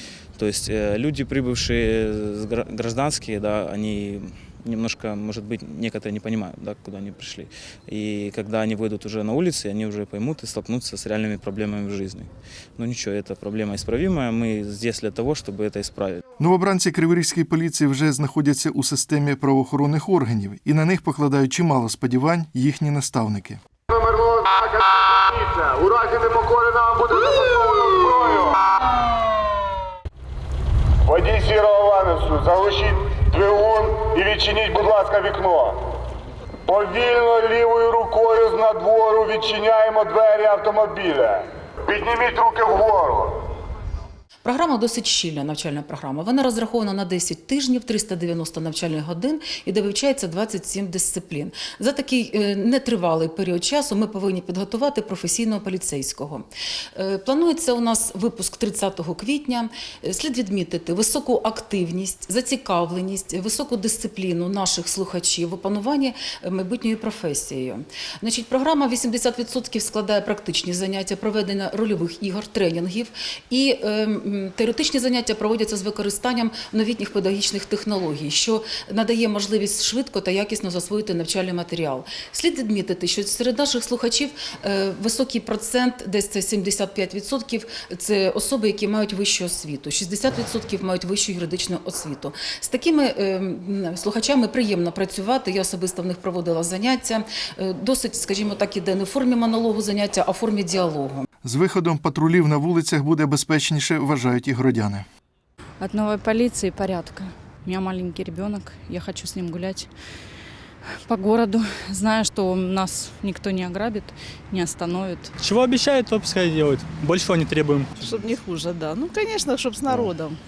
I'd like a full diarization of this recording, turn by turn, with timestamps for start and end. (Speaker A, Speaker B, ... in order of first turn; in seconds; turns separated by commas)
Speaker A: 0.4-16.2, Speaker B: 16.4-23.6, Speaker C: 23.9-28.6, Speaker C: 31.0-35.8, Speaker C: 36.6-43.4, Speaker D: 44.4-56.4, Speaker D: 57.0-101.2, Speaker B: 101.4-105.0, Speaker E: 105.8-109.9, Speaker E: 111.1-115.3, Speaker F: 115.4-117.9, Speaker G: 118.0-120.4